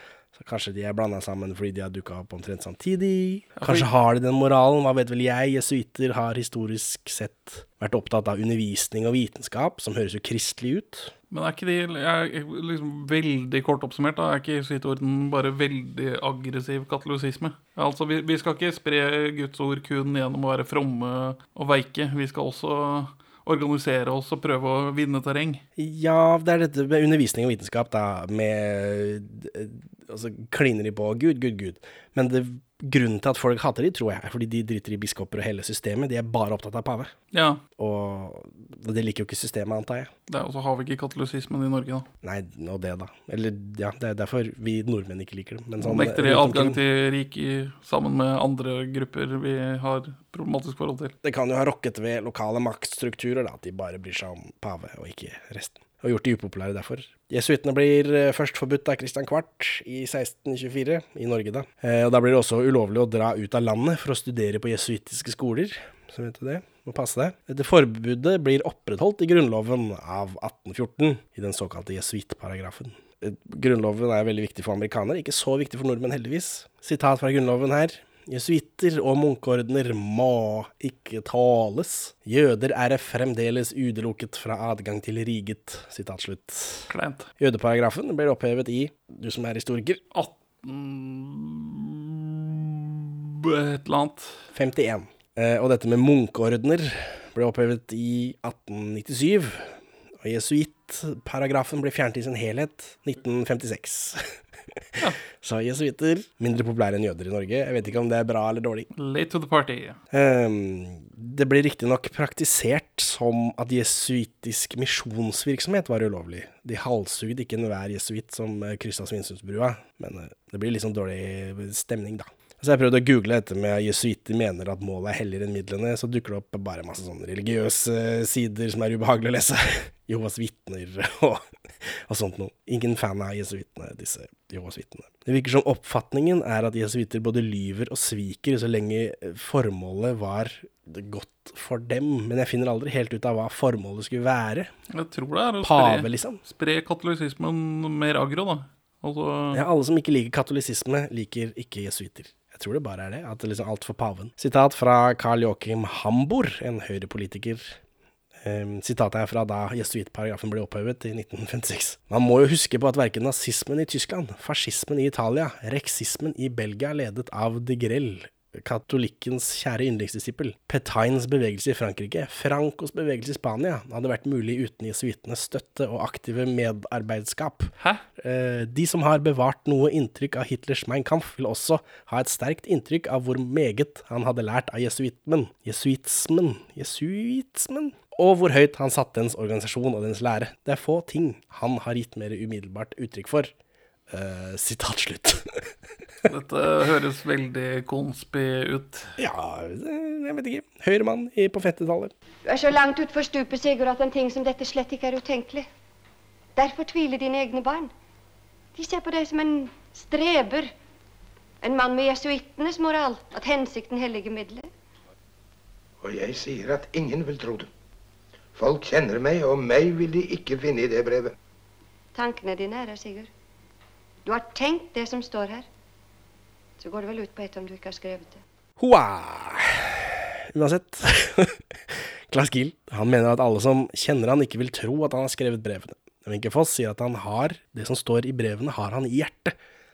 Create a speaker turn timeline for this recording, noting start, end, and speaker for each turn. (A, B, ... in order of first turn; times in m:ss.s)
0:00.3-0:11.1 A
0:03.6-0:03.9 B
0:11.3-0:25.6 B
0:25.8-0:37.1 A
0:37.3-0:37.6 B
0:37.8-0:40.1 A
0:40.3-0:42.1 B
0:42.2-0:46.8 A
0:45.8-0:51.1 B
0:51.2-1:30.0 A
1:26.9-1:27.3 B
1:30.1-1:34.4 B
1:34.5-1:44.2 A
1:45.4-1:48.9 A
1:48.9-1:50.0 B
1:50.1-2:24.7 A
2:24.9-2:29.6 B
2:25.6-2:26.4 A
2:29.5-2:37.8 A
2:38.4-3:13.5 A
3:14.1-3:15.5 A
3:16.2-3:19.1 B
3:19.2-3:22.1 A
3:22.4-3:25.7 C
3:26.6-3:27.9 C
3:28.7-3:30.7 C
3:31.6-3:34.7 C
3:36.0-3:37.7 D
3:38.6-3:41.3 D
3:42.1-3:43.3 C
3:44.2-3:45.7 C
3:46.8-3:48.4 C
3:48.8-3:59.5 A